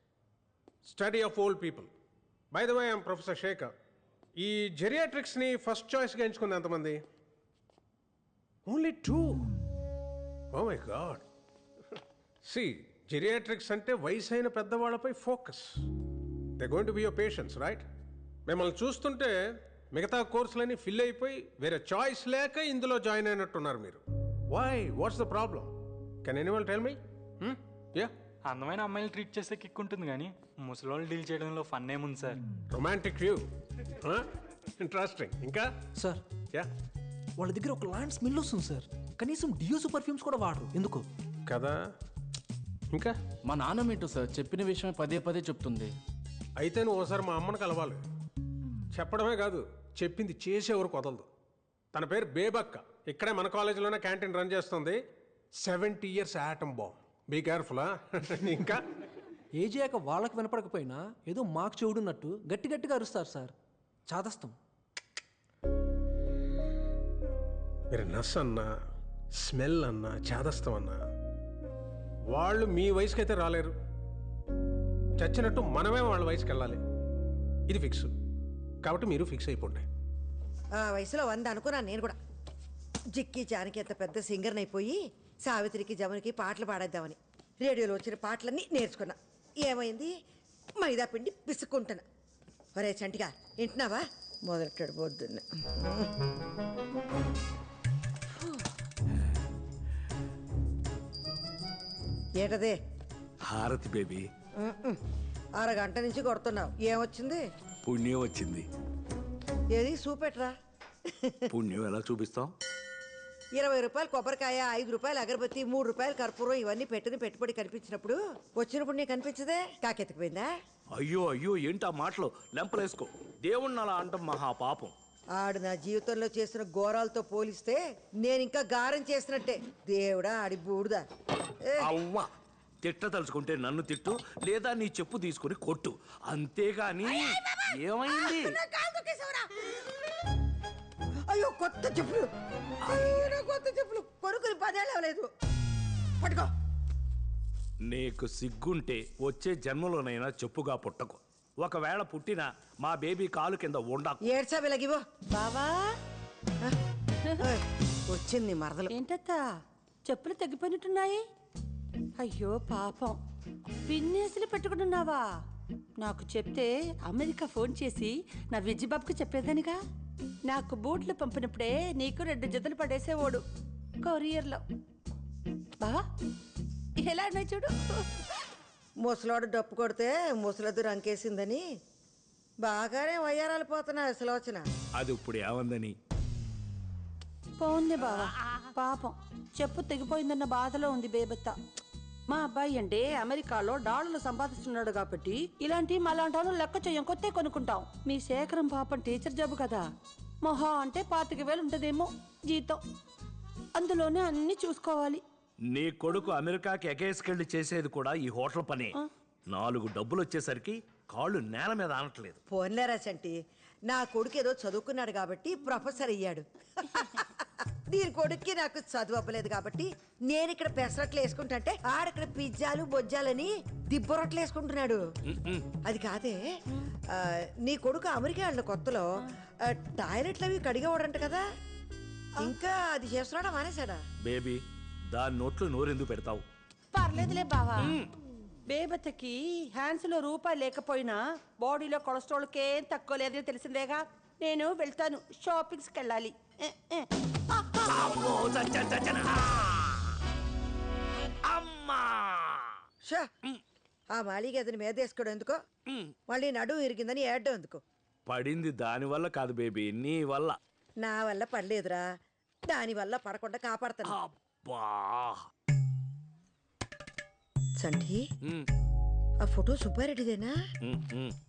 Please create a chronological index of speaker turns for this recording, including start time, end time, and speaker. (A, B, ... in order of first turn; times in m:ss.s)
0:00.8-0:01.9 A
0:02.5-0:03.7 A
0:04.4-0:07.0 A
0:08.7-0:09.4 A
0:10.5-0:11.2 A
0:12.4-0:15.7 A
0:16.6-0:17.8 A
0:18.5-0:19.3 A
0:19.9-0:25.7 A
0:26.2-0:28.1 A
0:28.5-0:32.3 B
0:32.7-0:33.4 A
0:34.8-0:35.7 A
0:37.4-0:41.0 C
0:41.5-0:41.8 A
0:43.5-0:45.9 D
0:46.6-0:48.0 A
0:48.9-0:51.3 A
0:51.9-0:55.0 A
0:55.6-0:58.8 A
0:59.6-1:03.5 C
1:04.1-1:04.5 C
1:07.9-1:08.7 A
1:09.4-1:11.0 A
1:12.3-1:13.7 A
1:15.2-1:16.8 A
1:17.7-1:18.1 A
1:18.8-1:19.8 A
1:20.8-1:22.2 E
1:23.2-1:30.1 E
1:30.8-1:32.0 E
1:32.8-1:36.1 E
1:42.4-1:42.8 E
1:43.4-1:44.3 F
1:44.6-1:45.0 E
1:45.6-1:47.4 E
1:47.8-1:48.6 F
1:49.7-1:50.5 E
1:51.5-1:52.5 F
1:53.6-2:00.5 E
2:00.9-2:04.9 F
2:05.4-2:11.0 E
2:11.8-2:12.3 F
2:12.8-2:18.6 F
2:17.0-2:19.8 E
2:21.3-2:22.3 E
2:22.8-2:25.3 E
2:26.2-2:26.5 E
2:27.9-2:34.2 F
2:34.2-2:35.0 E
2:35.3-2:35.9 G
2:37.4-2:38.9 E
2:38.9-2:39.4 G
2:40.0-2:41.2 G
2:42.2-2:43.2 G
2:43.9-2:45.3 G
2:46.0-2:49.8 G
2:50.5-2:53.4 G
2:54.0-2:54.6 G
2:57.0-2:58.0 G
2:59.0-3:01.6 E
3:02.6-3:04.7 E
3:05.0-3:06.0 F
3:07.6-3:11.5 G
3:12.3-3:19.9 G
3:20.4-3:22.8 G
3:23.8-3:25.2 G
3:25.7-3:29.0 F
3:29.5-3:32.4 F
3:32.5-3:33.4 E
3:33.9-3:45.0 E
3:45.3-3:45.6 F
3:45.8-3:46.4 E
3:47.1-3:49.0 E
3:49.7-3:51.4 E
3:52.4-3:54.0 E
3:54.2-3:56.4 F
3:56.9-3:57.9 G
3:58.7-4:07.1 G
4:07.7-4:10.0 F
4:11.5-4:12.7 F
4:14.1-4:15.6 E
4:16.3-4:17.8 E
4:18.3-4:20.6 F
4:21.0-4:22.0 E
4:22.7-4:24.1 E
4:24.1-4:25.4 F
4:27.8-4:28.2 E
4:29.4-4:30.5 E
4:30.8-4:31.3 F